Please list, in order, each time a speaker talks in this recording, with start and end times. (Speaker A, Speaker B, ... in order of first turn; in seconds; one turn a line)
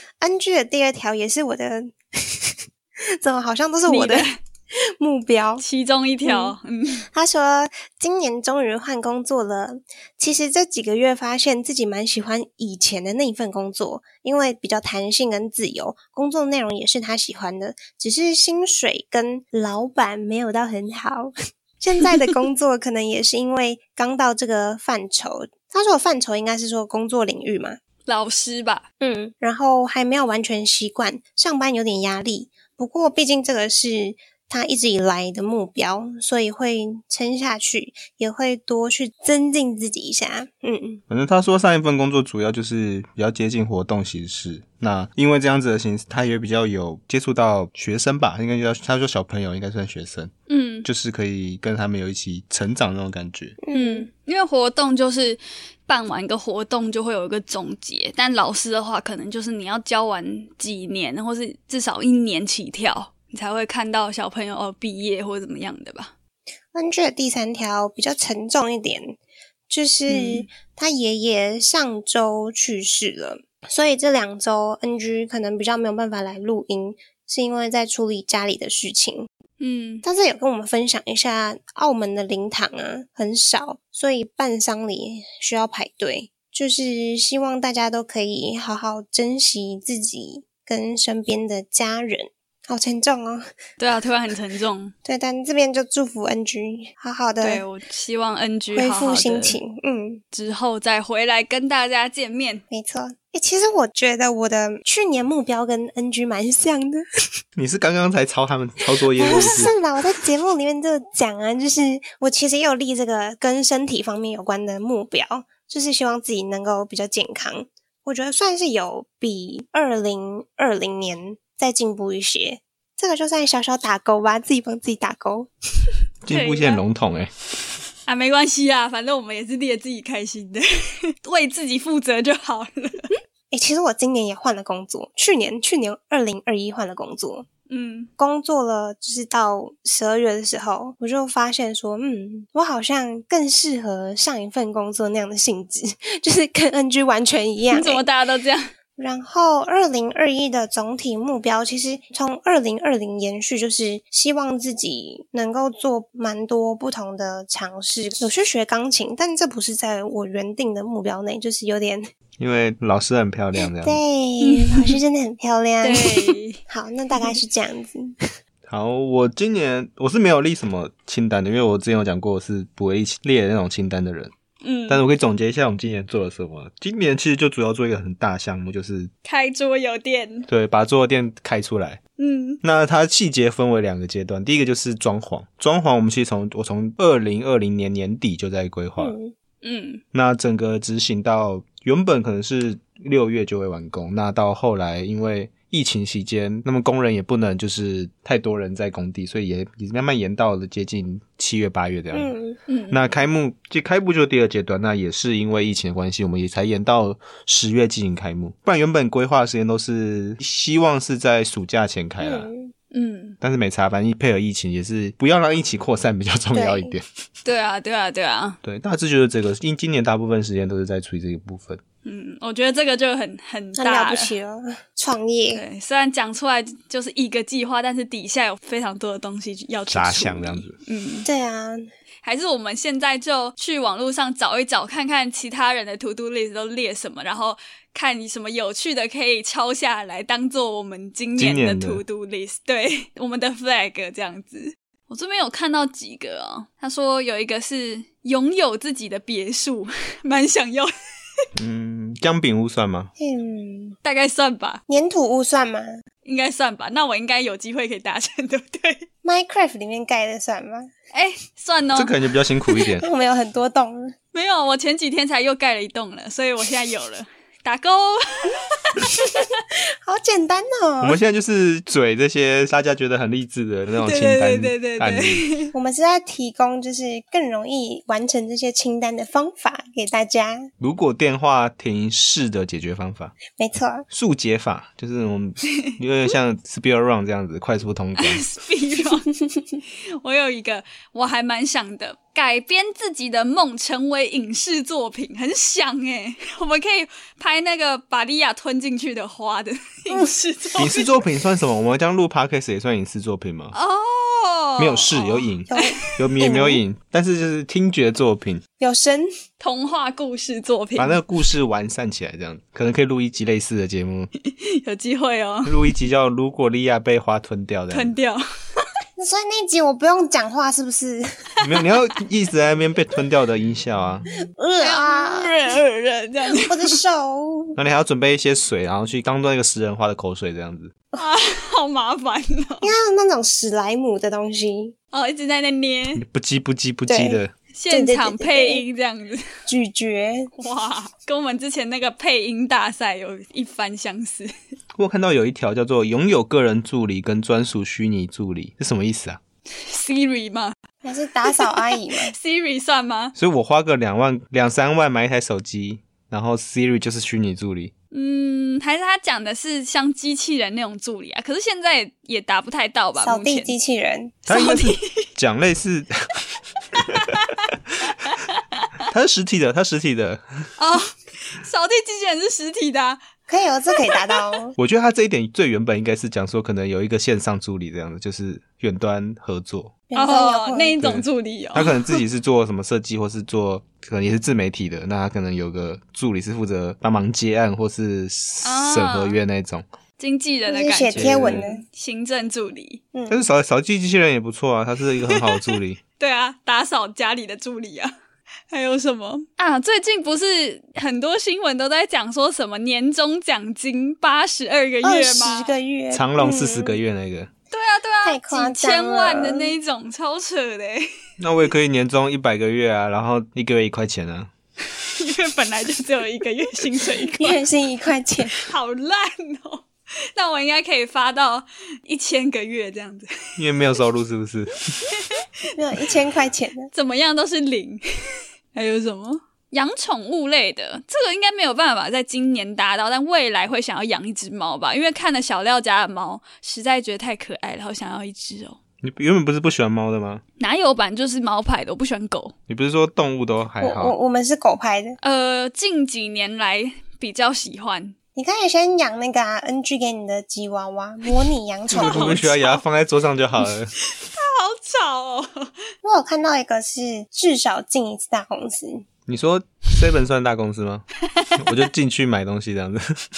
Speaker A: 0.2-5.6
Speaker B: 3.9-4.4
Speaker B: 5.6-7.0
Speaker A: 6.2-6.6
Speaker A: 7.1-27.8
Speaker B: 28.1-28.8
Speaker A: 29.0-41.0
Speaker C: 41.1-50.3
Speaker B: 50.5-50.9
Speaker C: 50.9-53.6
Speaker A: 53.6-54.1
Speaker B: 53.7-66.1
Speaker A: 66.7-69.2
Speaker A: 69.7-79.3
Speaker B: 70.1-70.5
Speaker B: 79.6-80.0
Speaker A: 80.0-93.5
Speaker B: 93.8-94.9
Speaker A: 95.1-97.6
Speaker B: 97.4-99.6
Speaker A: 98.7-100.2
Speaker B: 100.3-102.6
Speaker A: 102.7-107.0
Speaker C: 107.6-109.7
Speaker A: 109.2-125.5
Speaker C: 126.2-127.3
Speaker B: 126.3-126.8
Speaker B: 128.1-133.1
Speaker A: 133.5-137.5
Speaker B: 137.7-138.1
Speaker A: 138.2-148.0
Speaker B: 147.7-148.7
Speaker A: 149.0-162.1
Speaker C: 162.4-164.0
Speaker A: 163.8-168.1
Speaker B: 164.4-165.0
Speaker B: 165.8-166.6
Speaker C: 168.7-174.3
Speaker B: 174.6-175.0
Speaker C: 174.9-179.1
Speaker B: 179.2-180.5
Speaker C: 180.5-182.0
Speaker B: 182.2-182.6
Speaker C: 182.6-189.2
Speaker A: 189.0-189.3
Speaker B: 189.6-190.0
Speaker C: 190.1-202.3
Speaker A: 202.1-202.6
Speaker B: 202.7-203.0
Speaker C: 202.9-212.5
Speaker A: 212.2-212.7
Speaker B: 212.9-213.4
Speaker C: 213.4-217.0
Speaker A: 216.5-216.9
Speaker B: 217.4-218.6
Speaker C: 218.6-221.8
Speaker B: 222.0-224.3
Speaker A: 223.8-225.6
Speaker B: 225.5-231.3
Speaker C: 229.9-230.8
Speaker A: 231.2-231.9
Speaker B: 232.2-250.9
Speaker C: 241.4-242.0
Speaker C: 251.6-253.1
Speaker A: 253.2-254.0
Speaker B: 254.0-254.8
Speaker A: 254.9-255.9
Speaker B: 256.2-259.1
Speaker A: 259.2-260.9
Speaker B: 261.1-262.1
Speaker C: 261.9-263.1
Speaker A: 263.0-264.1
Speaker B: 264.3-269.5
Speaker A: 270.0-271.2
Speaker C: 271.0-275.4
Speaker B: 274.0-275.7
Speaker A: 275.7-280.7
Speaker C: 280.8-283.4
Speaker A: 283.5-284.0
Speaker C: 284.1-288.4
Speaker B: 288.2-289.3
Speaker B: 290.2-301.1
Speaker C: 300.8-303.7
Speaker B: 303.7-306.1
Speaker C: 304.8-308.6
Speaker A: 305.7-306.8
Speaker A: 308.8-309.3
Speaker B: 309.6-311.2
Speaker C: 311.0-314.3
Speaker B: 314.4-315.8
Speaker C: 315.7-318.1
Speaker B: 317.9-318.4
Speaker A: 319.2-321.2
Speaker C: 321.6-324.3
Speaker A: 324.6-325.5
Speaker B: 324.8-326.9
Speaker A: 326.5-327.8
Speaker C: 327.8-330.9
Speaker B: 331.2-332.9
Speaker A: 332.8-334.9
Speaker B: 335.1-336.2
Speaker C: 336.2-337.5
Speaker A: 337.1-338.8
Speaker B: 337.7-339.5
Speaker A: 339.7-340.5
Speaker B: 340.6-344.5
Speaker C: 345.0-349.4
Speaker B: 349.8-350.8
Speaker A: 351.0-352.3
Speaker B: 351.4-353.3
Speaker C: 353.4-357.9
Speaker B: 358.1-363.7
Speaker A: 363.2-364.4
Speaker B: 364.5-365.3
Speaker C: 364.5-366.4
Speaker C: 366.9-367.4
Speaker B: 367.3-367.6
Speaker B: 368.2-368.9
Speaker C: 369.1-370.7
Speaker B: 370.8-373.2
Speaker A: 373.5-374.7
Speaker C: 374.8-379.9
Speaker A: 380.1-381.0
Speaker B: 380.2-382.2
Speaker C: 381.0-389.9
Speaker B: 388.6-389.4
Speaker B: 390.2-393.0
Speaker A: 390.7-391.8
Speaker C: 391.1-391.7
Speaker A: 393.1-393.4
Speaker C: 393.3-396.0
Speaker B: 395.4-398.1
Speaker B: 398.7-405.7
Speaker A: 405.0-407.0
Speaker C: 406.1-407.5
Speaker B: 407.7-411.1
Speaker A: 408.2-409.7
Speaker C: 411.4-414.5
Speaker B: 415.1-417.6
Speaker A: 417.2-418.6
Speaker B: 418.5-423.3
Speaker C: 423.6-425.0
Speaker B: 425.1-425.4
Speaker A: 425.8-426.9
Speaker B: 426.9-428.0
Speaker B: 428.7-438.8
Speaker C: 439.0-440.4
Speaker B: 440.6-442.5
Speaker C: 442.7-444.1
Speaker A: 443.8-445.2
Speaker B: 445.2-448.1
Speaker A: 448.4-452.4
Speaker B: 451.9-452.8
Speaker C: 451.9-453.9
Speaker B: 454.1-455.7
Speaker A: 456.0-459.0
Speaker C: 459.3-461.0
Speaker C: 461.6-463.2